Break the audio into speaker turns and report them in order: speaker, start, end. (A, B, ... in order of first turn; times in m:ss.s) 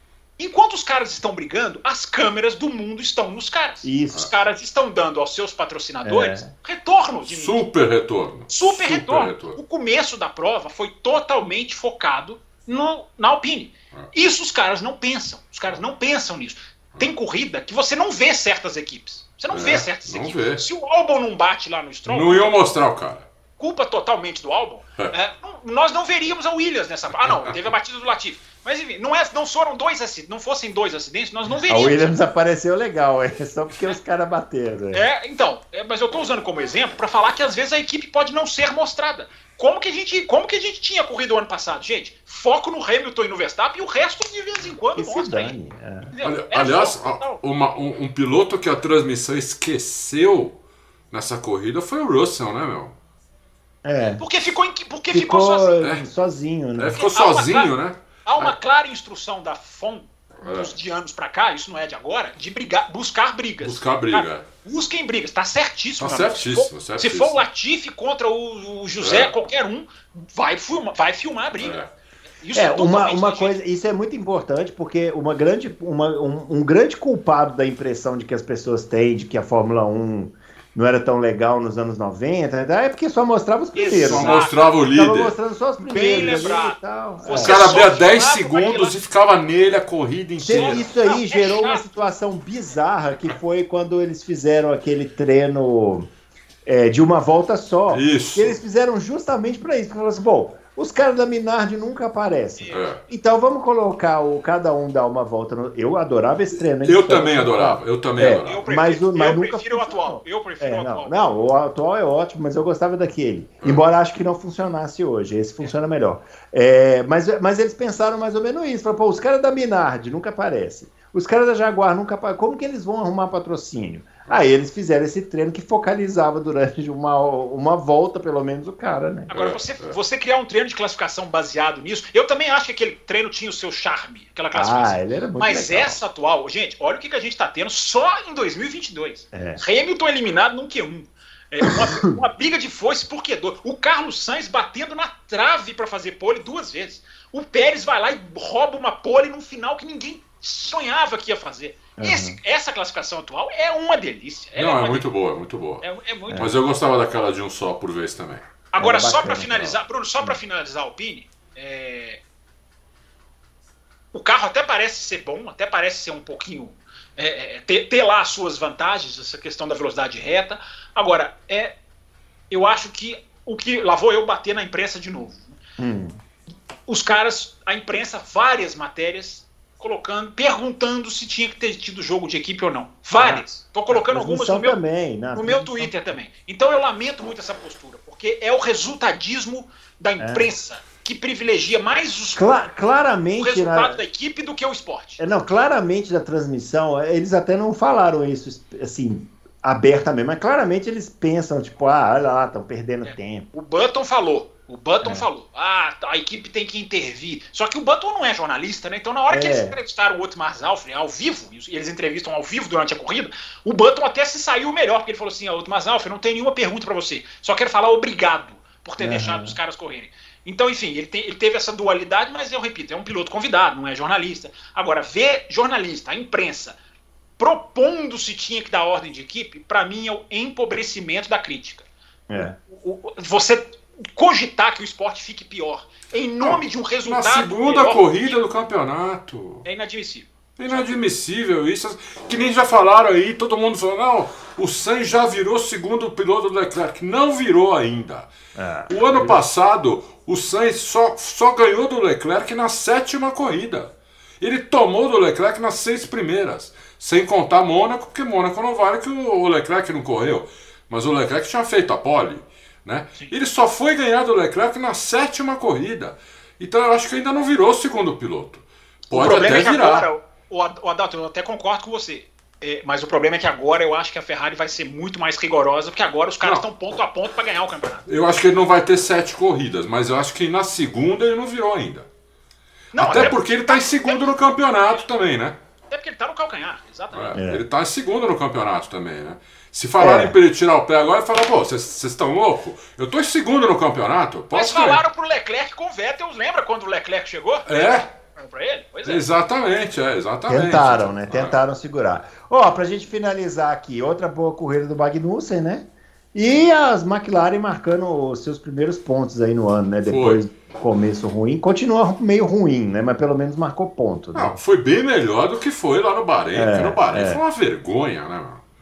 0:00.4-0:07.6 A
0:03.8-0:04.2 B
0:06.0-0:06.5 B
0:07.2-0:09.6 C
0:08.5-0:22.6 A
0:19.5-0:20.6 C
0:22.0-0:23.2 C
0:23.6-0:32.1 A
0:27.3-0:27.6 C
0:31.7-0:35.0 B
0:34.9-0:45.5 A
0:45.0-0:46.1 B
0:46.1-0:47.4 A
0:46.2-0:50.6 C
0:51.1-0:52.9 C
0:53.8-0:54.2 B
0:54.2-0:55.7 A
0:55.1-0:57.0 B
0:56.8-0:58.5 C
0:56.9-0:57.7 A
0:58.2-1:11.8 A
1:00.4-1:00.7 C
1:03.6-1:04.4 C
1:06.0-1:07.4 C
1:09.0-1:09.3 C
1:11.6-1:11.9 C
1:12.4-1:13.5 A
1:12.5-1:27.8 B
1:23.7-1:24.7 A
1:24.0-1:25.3 C
1:25.8-1:28.9 A
1:26.2-1:26.4 C
1:27.4-1:30.8 C
1:30.4-1:36.1 B
1:30.5-1:31.8 A
1:36.6-2:09.3 B
1:37.9-1:38.6 C
1:42.6-1:42.9 A
1:42.7-1:43.0 C
1:46.6-1:48.6 C
1:48.4-1:51.1 A
2:09.3-2:10.0 C
2:09.3-2:35.0 A
2:14.5-2:16.0 B
2:19.3-2:19.6 B
2:21.6-2:22.2 B
2:32.0-2:32.4 B
2:34.6-2:35.8 C
2:35.8-2:36.5 A
2:36.4-2:38.4 C
2:38.7-2:42.2 A
2:38.8-2:40.4 B
2:44.1-2:51.8 A
2:52.5-2:55.6 A
2:55.8-2:56.2 B
2:56.9-3:04.8 A
3:03.2-3:05.9 B
3:05.3-3:12.4 A
3:10.2-3:10.5 B
3:12.3-3:14.0 B
3:13.4-3:15.2 A
3:15.2-3:23.4 B
3:23.0-3:46.8 A
3:29.3-3:29.8 B
3:39.0-3:39.6 B
3:47.4-3:51.8 A
3:52.3-3:52.6 B
3:52.6-3:58.4 A
3:56.4-3:59.6 C
3:59.6-4:01.0 A
4:00.6-4:08.3 C
4:08.6-4:09.4 B
4:08.9-4:30.1 C
4:29.1-4:38.0 A
4:38.1-4:42.1 C
4:42.9-4:44.2 A
4:43.0-4:45.6 C
4:45.9-4:47.3 A
4:47.1-4:55.0 C
4:47.3-4:47.6 B
4:50.0-4:50.4 B
4:54.5-4:59.2 A
4:57.6-4:58.1 C
4:59.0-5:01.6 C
5:00.5-5:14.6 B
5:10.0-5:10.4 C
5:14.3-5:18.6 C
5:16.5-5:17.4 B